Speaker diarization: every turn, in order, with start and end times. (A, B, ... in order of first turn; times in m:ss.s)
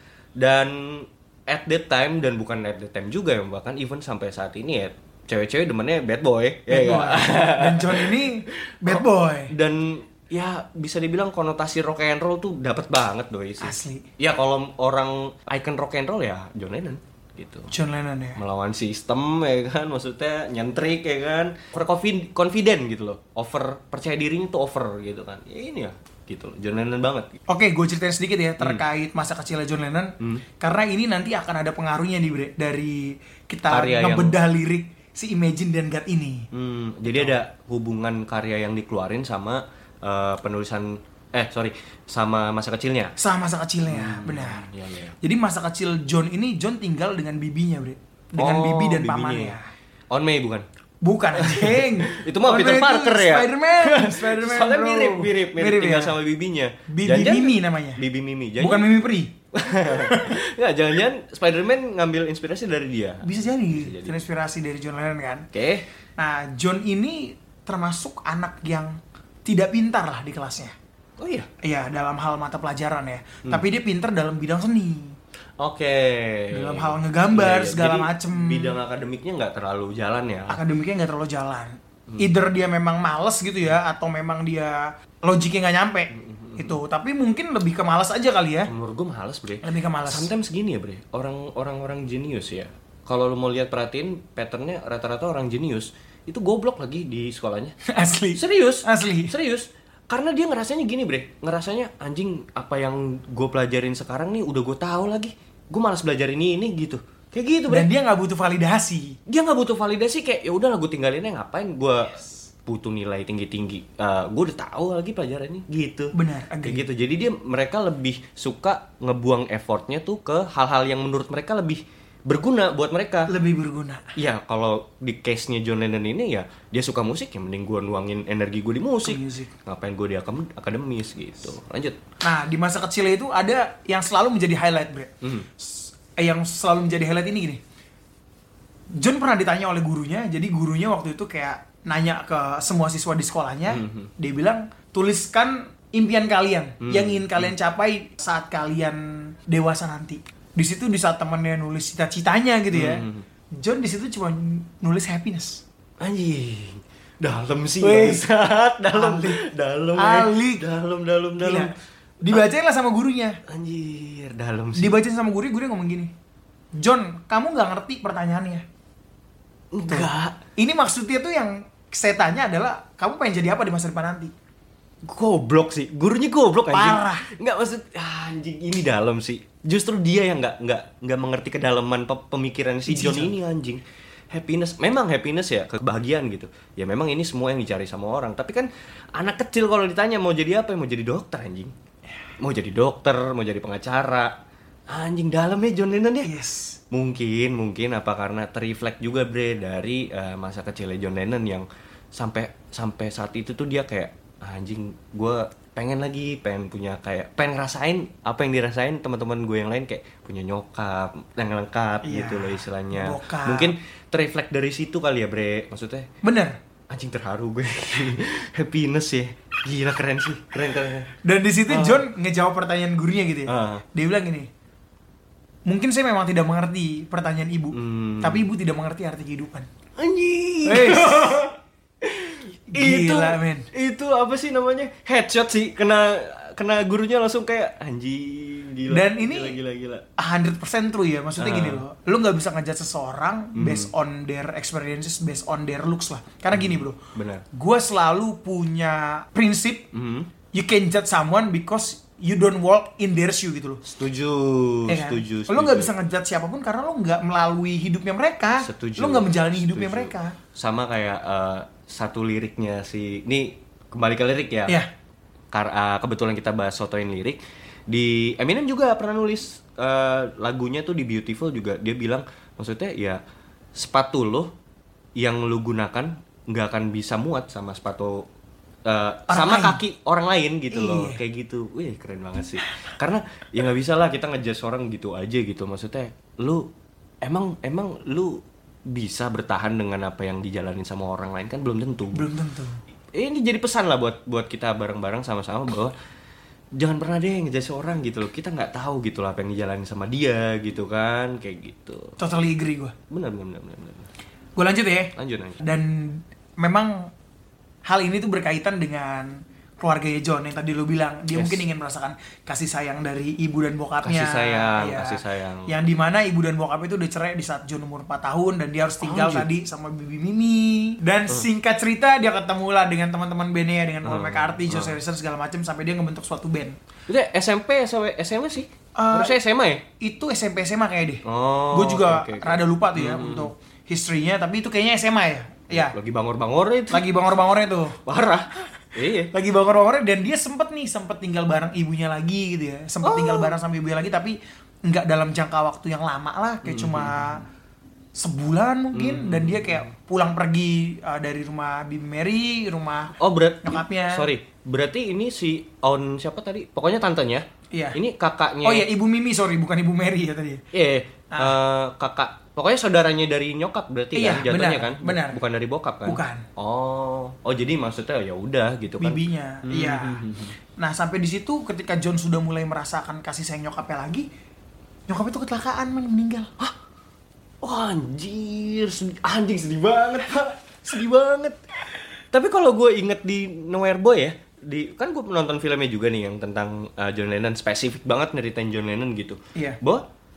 0:00.4-0:17.7 A
0:06.7-0:09.5 B
0:13.6-0:14.1 B
0:17.7-0:18.4 B
0:18.4-0:27.4 A
0:27.5-0:36.5 B
0:33.7-0:34.4 A
0:36.5-0:43.2 A
0:43.2-0:44.7 B
0:43.9-0:45.2 A
0:45.2-0:49.7 B
0:48.4-0:49.6 A
0:50.1-0:50.7 A
0:51.0-0:56.2 B
0:51.3-0:58.9 A
0:56.9-0:58.0 B
0:58.6-1:00.4 B
0:59.5-1:04.2 A
1:03.2-1:05.5 B
1:05.5-1:05.9 A
1:06.2-1:10.7 B
1:11.2-1:11.5 A
1:11.6-1:15.2 B
1:15.6-1:20.6 A
1:16.5-1:18.8 B
1:20.5-1:28.7 B
1:26.1-1:26.8 A
1:28.7-1:37.8 A
1:29.6-1:30.3 B
1:37.9-1:39.3 B
1:38.4-1:47.9 A
1:47.7-1:49.2 B
1:49.3-2:03.3 A
1:56.1-1:56.9 B
2:03.3-2:04.1 B
2:04.2-2:12.0 A
2:09.0-2:09.5 B
2:12.2-2:17.6 B
2:15.2-2:15.5 A
2:18.9-2:35.6 B
2:23.7-2:24.1 A
2:26.8-2:27.5 A
2:32.7-2:33.3 A
2:36.0-2:41.7 A
2:37.8-2:38.3 B
2:38.9-2:40.7 B
2:41.4-2:43.4 B
2:43.5-2:45.0 A
2:44.8-2:46.1 B
2:46.7-2:48.6 B
2:49.7-2:50.4 A
2:49.9-2:54.3 B
2:55.0-3:11.7 A
2:56.7-2:57.3 B
3:02.9-3:03.3 B
3:12.4-3:14.4 A
3:14.9-3:16.3 A
3:16.2-3:16.8 B
3:16.9-3:36.1 A
3:32.0-3:33.7 B
3:36.2-3:36.6 B
3:36.9-3:41.1 A
3:41.2-3:44.5 B
3:41.7-3:42.1 A
3:43.5-3:43.8 A
3:45.7-3:49.7 B
3:47.7-3:48.5 A
3:50.0-4:00.0 A
3:50.6-3:51.5 B
3:52.7-3:53.7 B
3:58.9-3:59.6 B
4:00.2-4:07.0 B
4:01.4-4:01.8 A
4:03.6-4:03.9 A
4:06.5-4:07.4 A
4:07.5-4:09.9 B
4:09.9-4:10.3 A
4:10.5-4:13.8 B
4:13.8-4:15.9 A
4:14.9-4:20.4 B
4:18.6-4:24.8 A
4:25.5-4:33.2 A
4:33.8-4:34.5 A
4:35.2-4:38.3 A
4:38.8-4:46.7 A
4:39.3-4:39.8 B
4:40.7-4:41.2 B
4:47.2-4:52.3 A
4:52.1-4:52.8 B
4:53.1-4:55.9 A
4:56.8-5:02.2 A
5:02.2-5:03.0 B
5:03.1-5:04.1 A
5:04.6-5:07.1 B
5:05.2-5:05.6 A
5:07.8-5:26.8 B
5:11.3-5:11.6 A
5:14.0-5:15.7 A
5:19.0-5:19.5 A
5:24.0-5:25.0 A
5:27.1-5:29.8 A
5:29.0-5:29.4 B
5:30.0-5:36.0 B
5:31.2-5:33.5 A
5:35.7-5:37.1 A
5:36.9-5:38.0 B
5:38.0-5:39.3 A
5:39.3-5:47.4 B
5:43.0-5:43.5 A
5:46.6-5:47.4 A
5:48.2-5:54.3 B
5:48.9-5:49.9 A
5:53.2-5:58.9 A
5:57.7-5:58.0 B
5:58.6-6:00.6 B
6:00.7-6:10.6 A
6:01.3-6:01.6 B
6:04.1-6:05.4 B
6:06.0-6:06.5 B
6:09.0-6:10.3 B
6:10.8-6:14.3 B
6:15.1-6:16.5 B
6:17.6-6:21.6 A
6:22.3-6:30.1 A